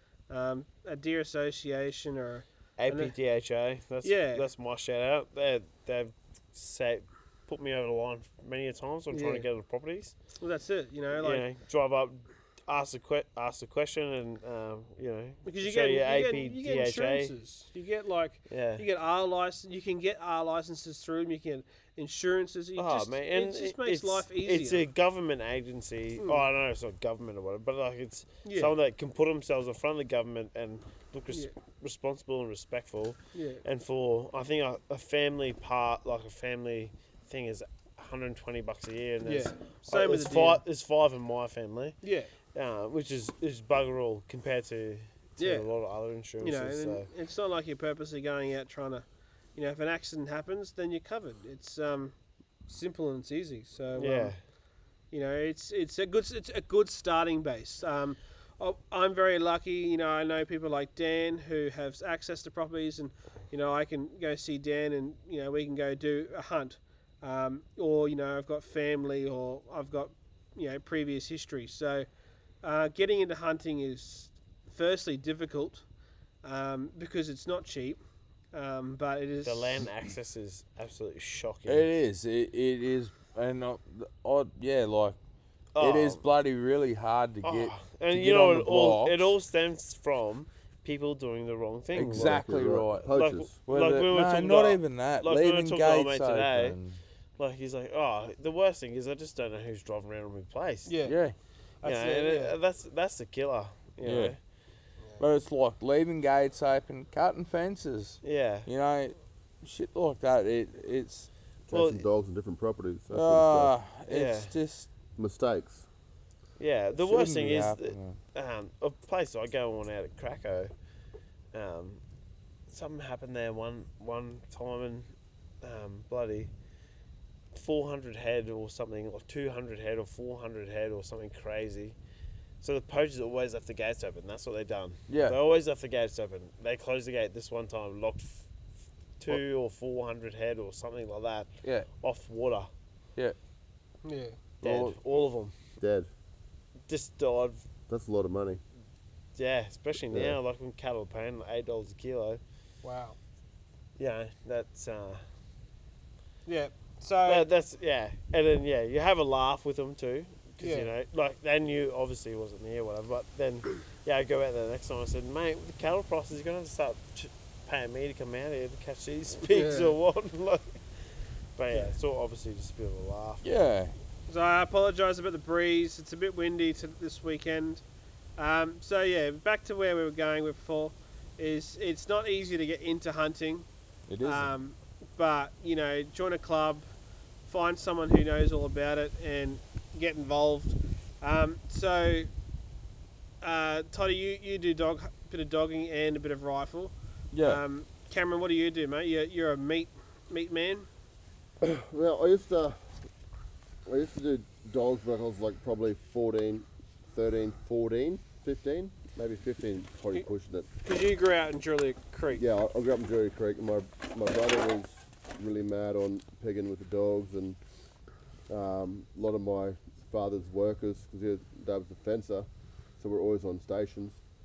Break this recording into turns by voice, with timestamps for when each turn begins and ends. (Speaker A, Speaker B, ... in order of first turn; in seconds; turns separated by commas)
Speaker A: 0.3-3.1, Speaker B: 2.8-10.2, Speaker A: 4.0-4.5, Speaker A: 9.1-9.5, Speaker A: 10.4-11.5, Speaker B: 11.2-17.3, Speaker A: 15.5-24.9, Speaker B: 18.5-18.8, Speaker B: 22.8-42.0, Speaker A: 26.2-26.4, Speaker A: 28.4-28.7, Speaker A: 33.3-33.6, Speaker A: 39.2-40.6, Speaker A: 42.0-42.3, Speaker B: 42.5-47.1, Speaker A: 45.4-45.7, Speaker A: 46.4-52.1, Speaker A: 52.7-54.3, Speaker B: 54.0-54.4, Speaker A: 55.1-72.1, Speaker A: 72.6-75.8, Speaker A: 76.4-78.0, Speaker A: 78.5-79.8, Speaker B: 79.5-81.9, Speaker C: 81.7-85.2, Speaker B: 85.8-86.2, Speaker C: 85.8-89.3, Speaker B: 87.4-92.4, Speaker C: 91.9-97.0, Speaker D: 92.0-93.5, Speaker B: 93.1-96.8, Speaker B: 97.4-100.9, Speaker A: 100.9-101.2, Speaker C: 101.0-101.3, Speaker A: 101.8-102.6, Speaker B: 101.8-104.4, Speaker C: 104.0-104.4, Speaker C: 105.2-111.3, Speaker B: 108.2-108.7, Speaker D: 111.7-113.7, Speaker B: 111.7-112.1, Speaker C: 113.1-114.9, Speaker B: 114.1-114.5, Speaker D: 115.2-115.9, Speaker B: 116.6-120.7, Speaker C: 117.0-118.2, Speaker B: 121.5-122.0, Speaker B: 122.7-125.1, Speaker B: 125.6-126.5, Speaker B: 127.5-132.0, Speaker B: 132.6-138.5, Speaker C: 135.1-135.4, Speaker B: 139.2-142.7, Speaker C: 141.6-141.9, Speaker A: 144.1-144.4, Speaker C: 144.6-145.0, Speaker B: 144.6-145.5, Speaker D: 145.8-146.1, Speaker B: 146.9-147.7, Speaker D: 147.9-148.6, Speaker B: 149.4-152.4, Speaker D: 150.1-150.4, Speaker A: 152.8-153.2, Speaker B: 154.0-155.2, Speaker A: 156.5-157.5, Speaker B: 157.3-170.8, Speaker A: 160.6-160.9, Speaker A: 169.5-169.9, Speaker B: 171.6-173.4, Speaker C: 173.4-173.9, Speaker A: 174.3-177.8, Speaker A: 178.4-183.7, Speaker C: 184.1-184.5, Speaker A: 184.2-186.9, Speaker A: 187.5-192.3, Speaker A: 193.4-200.9, Speaker C: 197.3-197.6, Speaker D: 201.6-202.8, Speaker D: 203.9-210.7, Speaker A: 210.8-212.4, Speaker D: 212.4-217.6, Speaker D: 218.5-222.5, Speaker D: 223.0-224.2